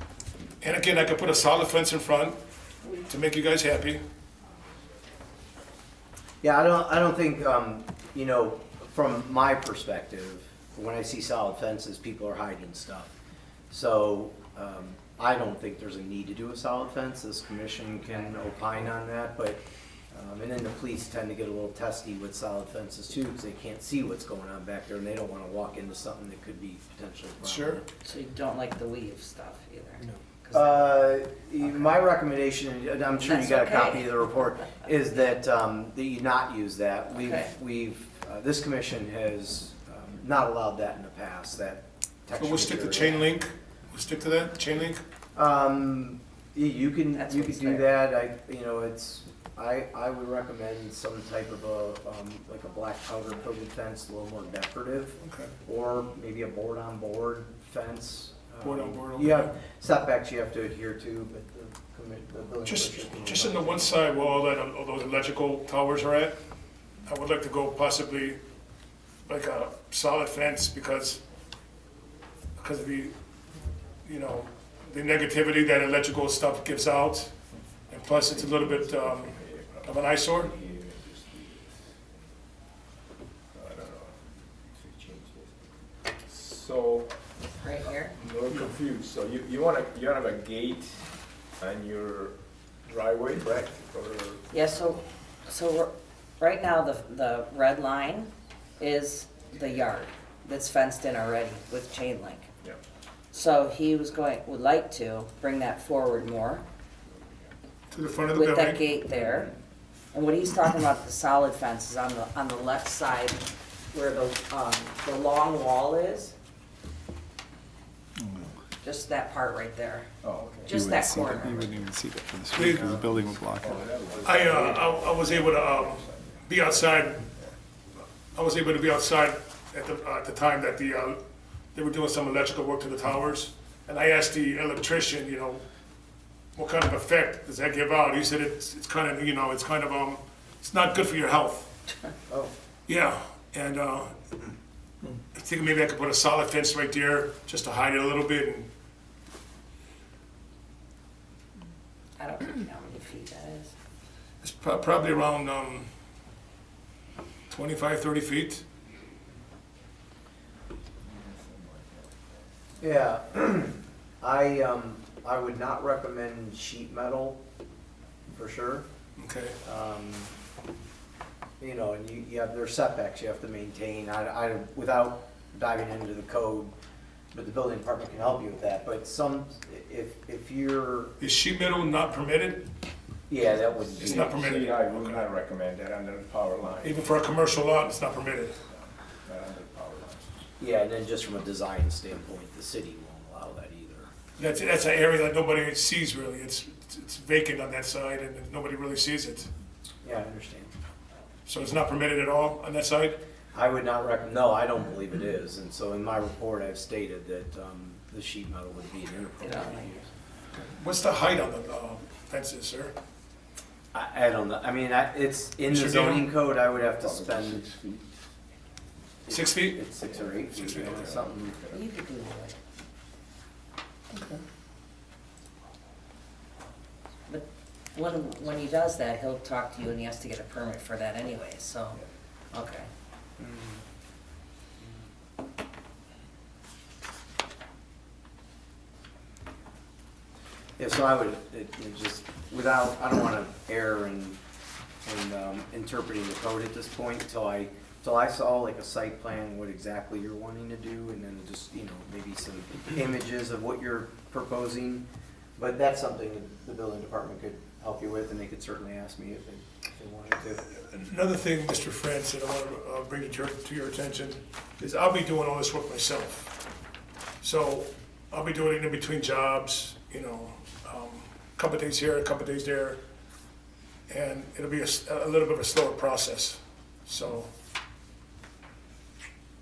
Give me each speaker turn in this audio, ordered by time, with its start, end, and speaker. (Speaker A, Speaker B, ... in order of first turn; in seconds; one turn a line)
Speaker A: 0.6-2.4
Speaker A: 2.9-4.0
Speaker B: 6.4-13.1
Speaker B: 13.7-19.6
Speaker B: 20.1-27.8
Speaker A: 27.4-27.8
Speaker C: 28.0-31.1
Speaker B: 30.5-43.2
Speaker C: 33.2-34.7
Speaker C: 37.2-37.5
Speaker A: 42.4-45.0
Speaker B: 45.3-63.9
Speaker C: 47.1-47.9
Speaker A: 55.2-55.5
Speaker A: 58.6-59.5
Speaker A: 62.6-66.3
Speaker A: 67.0-68.4
Speaker A: 69.3-71.2
Speaker A: 72.6-73.1
Speaker A: 74.0-77.3
Speaker A: 77.9-80.5
Speaker D: 78.1-81.9
Speaker D: 83.5-85.7
Speaker D: 86.2-87.2
Speaker C: 87.6-88.1
Speaker D: 87.8-94.5
Speaker C: 94.5-102.5
Speaker C: 103.3-106.6
Speaker A: 107.9-108.8
Speaker C: 108.3-109.5
Speaker C: 110.1-116.3
Speaker C: 118.8-120.1
Speaker D: 120.2-120.8
Speaker C: 120.6-121.7
Speaker E: 120.6-124.0
Speaker A: 122.5-122.9
Speaker D: 122.7-127.5
Speaker A: 124.2-127.3
Speaker A: 128.3-131.2
Speaker A: 131.7-135.6
Speaker A: 136.6-141.7
Speaker A: 142.9-144.2
Speaker A: 145.3-148.7
Speaker C: 152.2-153.7
Speaker A: 154.4-155.9
Speaker A: 157.5-158.6
Speaker D: 161.0-162.2
Speaker B: 162.8-167.4
Speaker B: 168.3-168.8
Speaker A: 169.2-169.6
Speaker B: 169.6-170.3
Speaker B: 171.6-176.7
Speaker B: 177.3-181.1
Speaker A: 181.2-182.7
Speaker B: 183.3-184.4
Speaker A: 184.0-185.2
Speaker D: 184.0-187.2
Speaker A: 186.8-188.5
Speaker D: 188.7-190.5
Speaker B: 190.6-194.1
Speaker A: 194.4-199.5
Speaker B: 200.0-200.7
Speaker A: 201.4-203.2
Speaker B: 203.5-210.1
Speaker C: 209.4-210.0
Speaker A: 210.5-212.9
Speaker B: 213.9-217.7
Speaker A: 215.7-216.3
Speaker D: 216.9-218.2
Speaker B: 219.3-221.6
Speaker A: 219.3-219.8
Speaker D: 220.0-221.8
Speaker A: 220.6-221.0
Speaker C: 221.7-222.6
Speaker A: 224.1-224.4
Speaker C: 227.3-232.0
Speaker C: 232.5-232.9
Speaker B: 233.4-233.8
Speaker B: 240.8-244.4
Speaker B: 245.0-255.1
Speaker B: 255.6-260.6
Speaker A: 260.7-266.5
Speaker A: 267.4-273.0
Speaker A: 274.1-277.5